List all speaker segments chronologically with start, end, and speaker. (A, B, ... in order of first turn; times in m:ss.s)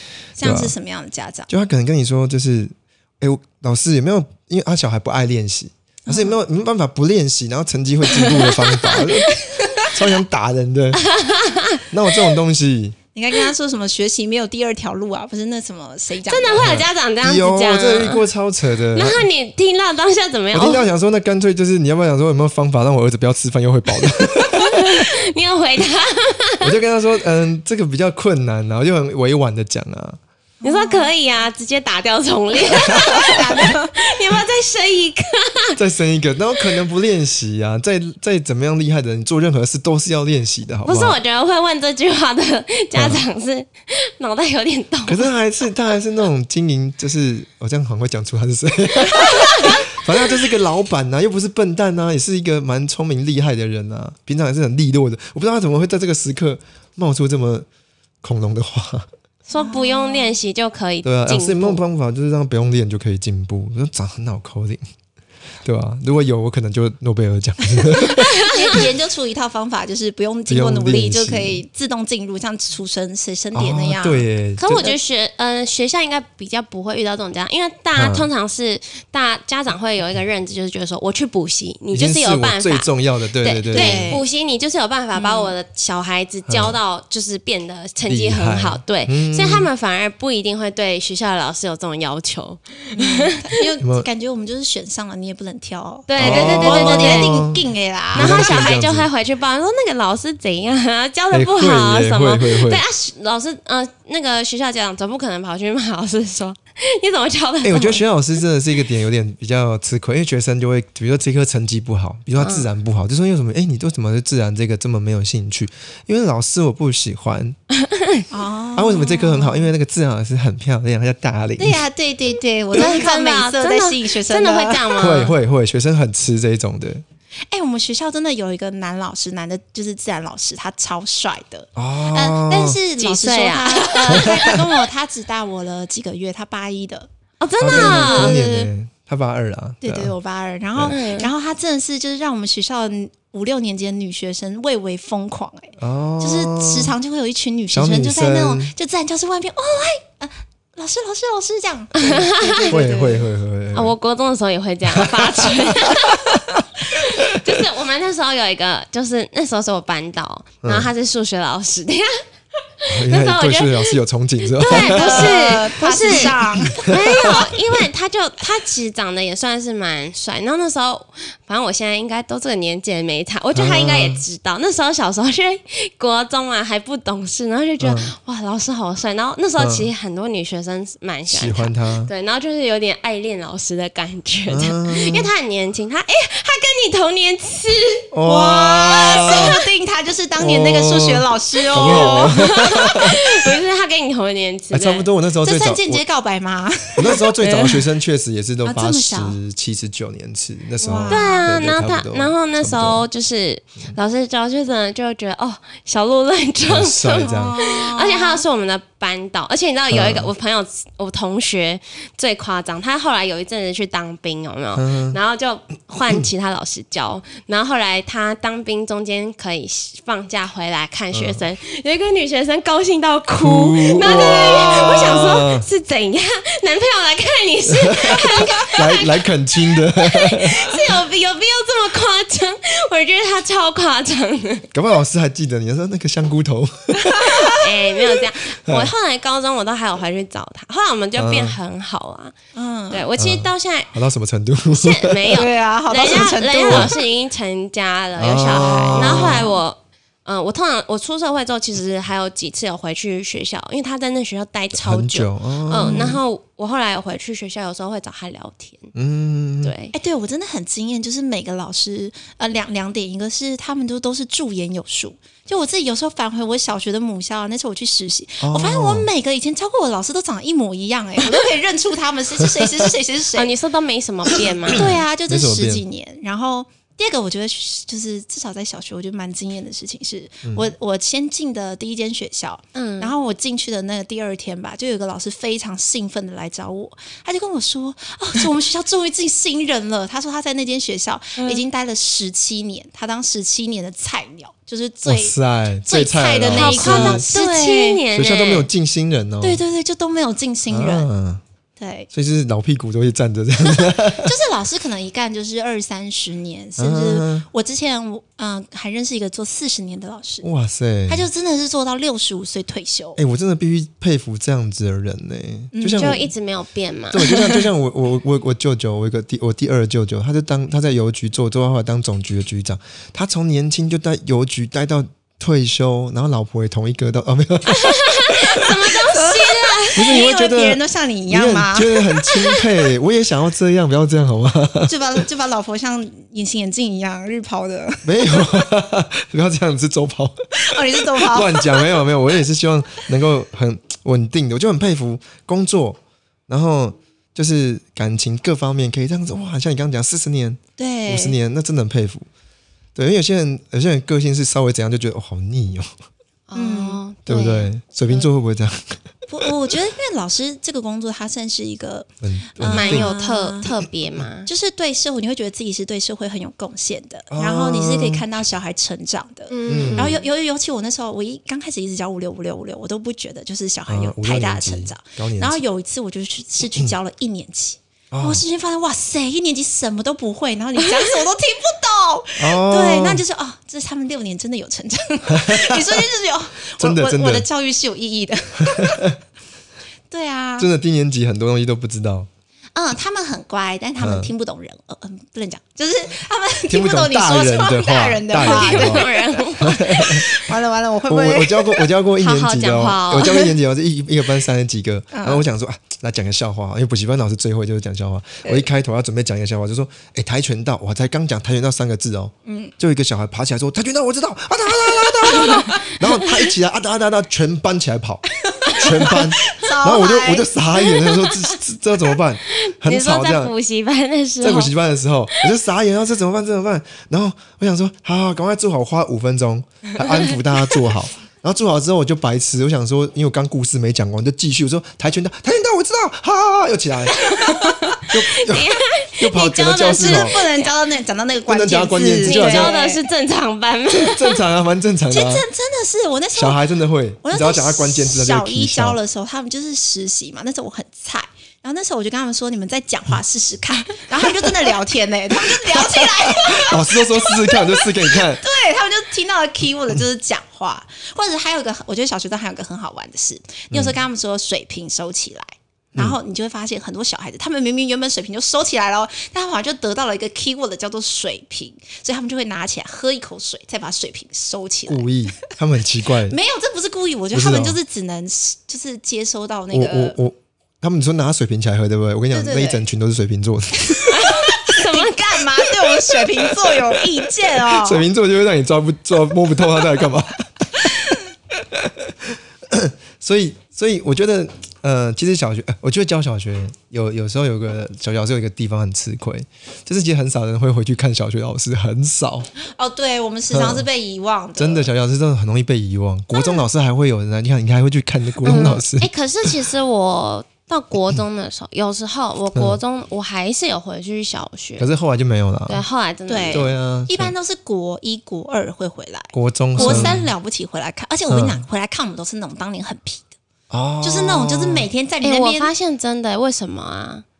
0:00.4-0:01.5 A
0:00.4-0:00.7 B
0:01.5-0:11.0 B
0:06.1-0:06.4 A
0:08.1-0:09.3 C
0:11.0-0:11.8 C
0:11.9-0:13.0 B
0:13.1-0:16.7 A
0:16.2-0:18.2 C
0:16.5-0:19.3 B
0:18.9-0:20.8 C
0:20.5-0:25.0 B
0:24.5-0:26.7 C
0:26.6-0:30.2 B
0:30.6-0:31.1 A
0:30.6-0:35.8 C
0:32.7-0:34.1 A
0:32.8-0:33.4 B
0:35.8-0:41.2 B
0:40.8-0:45.3 C
0:42.9-0:43.2 B
0:45.1-0:57.7 B
0:49.2-0:49.8 C
0:58.2-0:59.1 B
0:59.5-1:01.8 C
0:59.5-1:00.4 A
1:01.0-1:04.8 B
1:05.6-1:08.8 B
1:08.0-1:08.7 C
1:08.2-1:15.0 A
1:10.5-1:11.6 B
1:13.5-1:14.8 B
1:14.6-1:22.9 C
1:18.0-1:18.3 B
1:21.9-1:24.2 B
1:23.4-1:33.6 C
1:23.7-1:24.2 A
1:25.1-1:25.5 A
1:26.5-1:26.8 B
1:28.1-1:29.7 B
1:32.9-1:38.5 A
1:33.8-1:34.0 B
1:36.1-1:37.3 C
1:36.2-1:39.1 B
1:38.1-1:48.0 C
1:41.3-1:42.8 B
1:47.6-1:57.6 B
1:52.4-1:52.6 C
1:57.7-1:58.2 C
1:58.3-1:59.7 A
1:58.8-2:01.8 B
2:01.6-2:04.9 A
2:02.7-2:05.3 C
2:05.0-2:07.0 B
2:07.5-2:17.1 A
2:11.8-2:12.8 B
2:13.0-2:14.6 C
2:14.1-2:14.6 B
2:17.4-2:18.4 C
2:17.6-2:20.1 B
2:17.6-2:18.7 A
2:19.8-2:33.3 A
2:20.9-2:21.3 C
2:25.8-2:26.9 B
2:27.7-2:28.7 B
2:32.0-2:32.7 C
2:32.7-2:33.9 B
2:33.7-2:36.3 C
2:35.0-2:36.6 B
2:37.3-2:42.2 C
2:40.6-2:40.9 B
2:42.8-2:43.9 C
2:42.9-2:47.3 B
2:44.5-3:08.1 C
2:44.7-2:46.9 A
2:53.5-2:54.2 B
2:57.8-2:58.1 B
2:59.6-2:59.9 B
3:01.3-3:02.1 B
3:04.5-3:05.3 B
3:08.1-3:09.6 B
3:08.2-3:12.6 A
3:09.2-3:09.5 C
3:10.4-3:13.2 B
3:11.7-3:15.1 C
3:14.7-3:16.0 B
3:15.4-3:17.3 A
3:17.0-3:23.0 B
3:17.4-3:17.8 C
3:18.6-3:19.4 A
3:20.8-3:21.4 A
3:21.1-3:54.7 C
3:26.6-3:27.6 B
3:27.2-3:28.4 A
3:29.9-3:30.3 B
3:34.8-3:35.2 B
3:41.1-3:41.4 B
3:43.4-3:45.6 B
3:44.0-3:45.1 A
3:47.7-3:50.9 B
3:54.7-3:57.6 B
3:57.1-3:57.5 A
3:57.3-4:02.3 C
3:58.6-3:58.9 B
4:01.2-4:01.6 B
4:02.5-4:03.1 A
4:02.9-4:03.9 C
4:03.2-4:05.4 B
4:04.7-4:18.9 C
4:05.3-4:06.9 A
4:06.6-4:06.9 B
4:08.2-4:09.5 B
4:08.5-4:09.5 A
4:14.7-4:16.2 B
4:15.8-4:16.2 A
4:18.9-4:19.7 B
4:19.6-4:19.9 C
4:19.9-4:33.6 A
4:28.4-4:29.1 B
4:33.3-4:34.9 C
4:34.7-4:55.4 A
4:34.7-4:35.8 B
4:40.4-4:40.7 B
4:42.7-4:43.1 C
4:55.0-4:57.2 B
4:55.9-4:58.0 A
4:56.5-4:58.7 C
4:58.1-4:59.6 B
4:59.4-5:01.1 A
5:00.7-5:01.4 B
5:01.8-5:02.1 A
5:02.1-5:04.3 B
5:03.6-5:10.5 A
5:06.8-5:07.4 B
5:10.4-5:11.3 B
5:11.1-5:13.2 A
5:13.2-5:16.3 B
5:15.7-5:16.2 A
5:15.9-5:17.5 C
5:17.1-5:28.4 B
5:27.6-5:30.1 C
5:28.9-5:32.6 A
5:29.9-5:35.2 B
5:34.9-5:38.6 A
5:38.0-5:52.3 B
5:40.6-5:42.0 A
5:50.8-5:51.4 A
5:52.9-5:55.9 B
5:56.5-5:58.3 C
5:56.5-5:57.0 A
5:57.2-5:59.5 B
5:59.3-6:03.7 A
6:02.2-6:03.1 B
6:02.7-6:04.5 C
6:04.5-6:29.1 A
6:07.3-6:08.2 B
6:09.5-6:10.2 C
6:09.7-6:10.2 B
6:13.9-6:15.6 B
6:18.1-6:18.4 B
6:22.4-6:23.2 B
6:25.3-6:26.0 B
6:26.8-6:27.5 B
6:28.6-6:29.1 B
6:30.1-6:30.7 A
6:30.6-6:32.3 B
6:32.7-6:41.9 A
6:34.0-6:34.3 B
6:36.7-6:39.0 B
6:38.4-6:40.2 C
6:39.6-6:40.3 B
6:41.1-7:03.5 B
6:42.2-6:43.5 C
6:45.1-6:45.4 A
6:52.4-6:52.7 A
6:54.8-6:55.9 A
6:55.4-6:55.7 C
6:58.4-7:00.5 A
7:02.5-7:04.7 C
7:04.4-7:17.5 B
7:10.0-7:10.3 C
7:17.2-7:17.7 A
7:17.3-7:20.7 C
7:18.1-7:20.4 B
7:19.9-7:23.0 A
7:21.5-7:22.7 B
7:22.2-7:24.4 C
7:24.0-7:25.4 B
7:25.1-7:26.6 A
7:26.3-7:29.0 B
7:27.2-7:55.5 A
7:35.6-7:38.4 B
7:43.7-7:44.0 B
7:54.9-7:56.4 B
7:56.3-8:00.2 A
7:57.3-7:57.8 B
7:59.7-8:04.2 B
8:02.3-8:02.8 A
8:03.9-8:08.0 A
8:04.1-8:05.7 C
8:07.6-8:22.5 B
8:22.6-8:24.9 A
8:23.5-8:23.8 B
8:24.6-8:29.6 B
8:26.3-8:26.6 A
8:28.4-8:34.9 C
8:28.5-8:28.8 A
8:32.5-8:32.8 B
8:34.8-8:35.8 B
8:35.7-8:36.6 C
8:36.3-8:43.3 A
8:36.5-8:37.3 B
8:39.3-8:40.3 B
8:39.8-8:40.2 C
8:41.3-8:41.6 B
8:43.7-8:44.9 B
8:44.0-8:45.7 A
8:45.2-8:47.2 C